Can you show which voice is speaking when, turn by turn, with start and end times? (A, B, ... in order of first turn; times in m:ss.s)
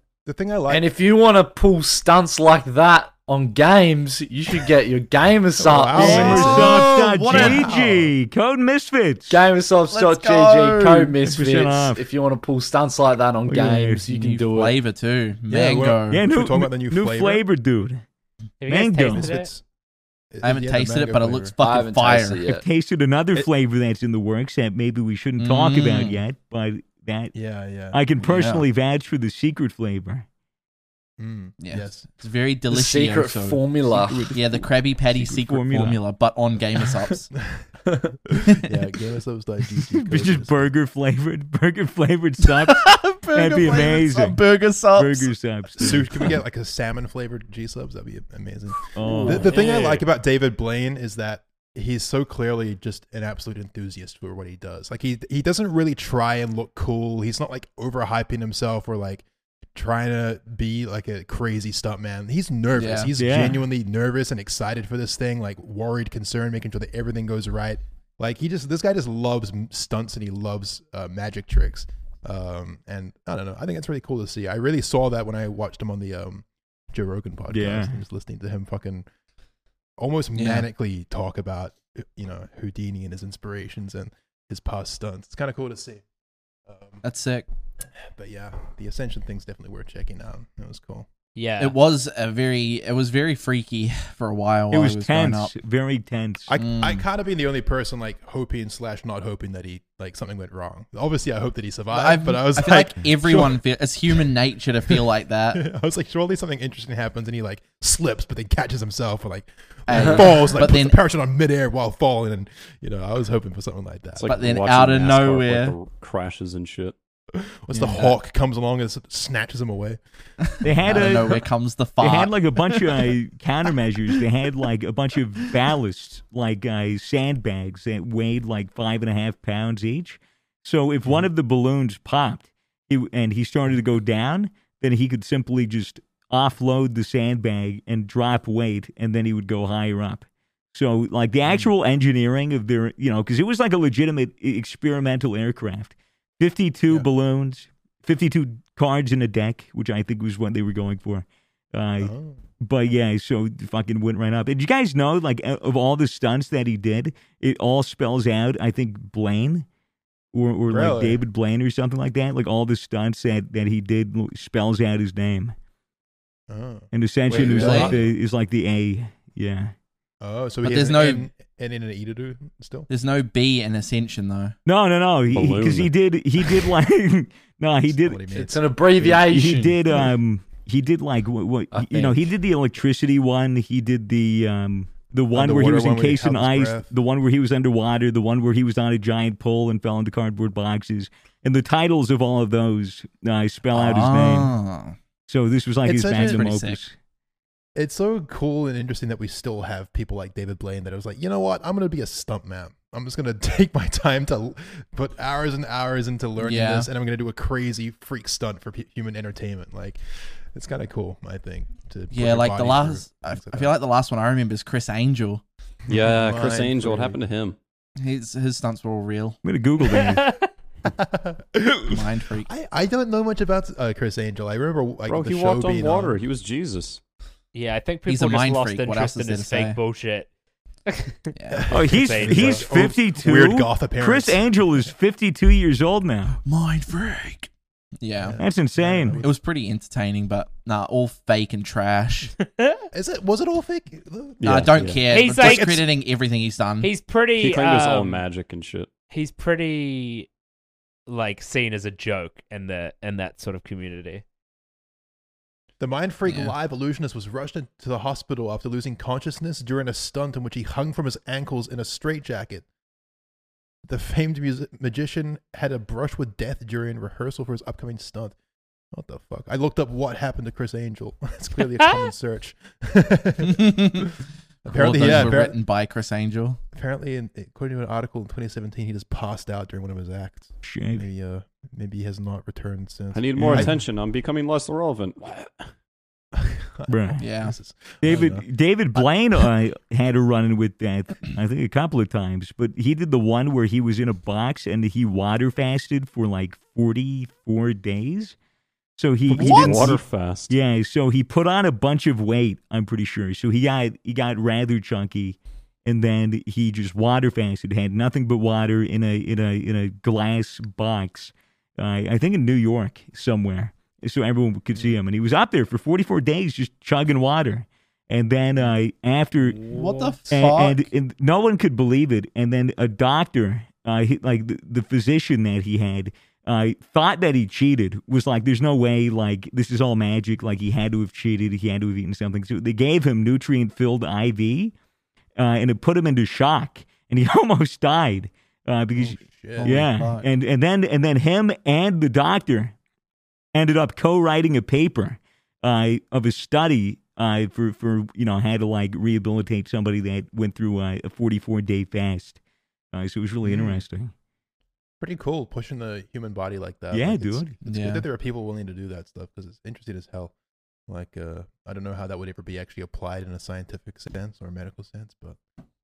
0:00.2-0:00.9 A
0:00.7-0:06.6 B
0:05.6-0:08.1 A
0:06.0-0:09.4 C
0:06.0-0:07.7 D
0:09.3-0:14.8 B
0:09.9-0:11.1 D
0:11.2-0:12.0 C
0:13.4-0:14.2 C
0:14.1-0:16.2 D
0:15.5-0:17.4 A
0:16.1-0:18.0 C
0:18.6-0:19.5 E
0:18.6-0:19.3 C
0:19.1-0:19.6 A
0:20.3-0:21.5 A
0:20.4-0:22.4 D
0:21.6-0:22.6 B
0:22.4-0:27.4 C
0:25.4-0:26.2 D
0:27.3-0:28.0 A
0:27.9-0:30.2 C
0:28.2-0:28.6 D
0:31.2-0:32.0 A
0:31.6-0:33.6 D
0:32.7-0:34.4 B
0:33.9-0:36.0 C
0:34.3-0:37.3 D
0:38.3-0:40.7 A
0:39.8-0:46.3 C
0:42.4-0:45.3 D
0:45.8-1:19.0 A
0:48.9-0:50.0 C
0:49.0-0:49.5 D
1:02.7-1:03.1 D
1:03.2-1:03.6 C
1:17.5-1:18.0 C
1:20.0-1:26.0 A
1:20.4-1:20.6 D
1:26.7-1:27.0 A
1:27.0-1:27.5 D
1:28.0-1:31.1 A
1:31.4-1:31.8 E
1:31.6-1:35.5 D
1:34.7-1:36.6 C
1:36.5-1:44.2 A
1:36.6-1:37.0 D
1:41.9-1:45.6 D
1:45.5-1:54.3 A
1:49.9-1:51.0 D
1:50.0-1:50.2 B
1:54.2-1:56.9 F
1:54.3-1:55.7 D
1:57.3-2:00.0 A
1:57.7-1:58.2 D
2:00.6-2:01.4 C
2:00.8-2:03.1 D
2:02.0-2:39.6 C
2:21.5-2:21.7 A
2:32.0-2:32.4 A
2:40.3-2:45.5 C
2:40.7-2:41.2 A
2:46.5-2:48.1 A
2:46.9-2:49.7 C
2:47.3-2:48.0 B
2:47.4-2:47.9 D
2:50.2-2:52.9 A
2:50.6-2:51.3 D
2:52.9-2:54.6 D
2:54.6-2:58.3 C
2:55.3-2:55.9 F
2:57.9-2:59.2 A
2:58.3-2:59.8 B
2:59.0-3:14.6 C
3:01.7-3:02.2 B
3:05.3-3:06.9 A
3:13.7-3:15.0 D
3:15.3-3:16.9 C
3:15.8-3:16.4 A
3:16.1-3:16.8 D
3:17.7-3:33.7 A
3:26.4-3:26.9 D
3:32.1-3:35.4 D
3:35.9-3:37.2 A
3:35.9-3:37.6 F
3:38.0-3:39.4 D
3:39.4-3:40.3 C
3:39.9-3:40.5 E
3:40.8-3:46.2 A
3:41.9-3:42.5 D
3:45.0-3:47.0 F
3:47.5-3:50.3 E
3:48.1-3:49.8 D
3:50.9-3:52.6 E
3:51.3-3:51.7 D
3:51.5-3:54.9 A
3:51.7-3:56.4 C
3:56.4-3:58.4 D
3:58.2-3:59.3 A
3:58.4-3:59.2 C
3:59.2-4:02.3 D
4:02.4-4:02.9 E
4:02.9-4:05.8 A
4:04.4-4:05.0 F
4:04.4-4:06.9 D
4:05.1-4:05.8 E
4:06.8-4:08.2 E
4:07.4-4:08.9 F
4:09.1-4:10.3 E
4:11.1-4:14.2 E
4:15.8-4:22.6 A
4:16.3-4:16.5 D
4:23.9-4:28.4 A
4:28.9-4:35.6 A
4:31.8-4:32.0 E
4:33.4-4:34.1 D
4:34.6-4:36.6 D
4:36.7-4:43.8 A
4:40.6-4:41.0 C
4:43.1-4:45.6 F
4:43.4-4:43.7 C
4:46.3-4:48.4 A
4:46.9-4:47.3 C
4:47.2-4:47.6 D
4:48.0-4:58.4 C
4:59.0-5:19.7 C
4:59.3-4:59.9 D
4:59.3-5:00.6 F
5:19.6-5:20.2 B
5:19.7-5:20.9 D
5:20.3-5:34.7 C
5:35.4-5:42.7 C
5:39.0-5:39.8 A
5:39.6-5:40.3 D
5:43.5-5:52.4 C
5:52.9-5:54.1 C
5:53.4-5:53.8 A
5:55.0-6:00.3 A
5:56.9-5:57.6 C
5:57.6-5:58.0 D
6:00.9-6:05.4 A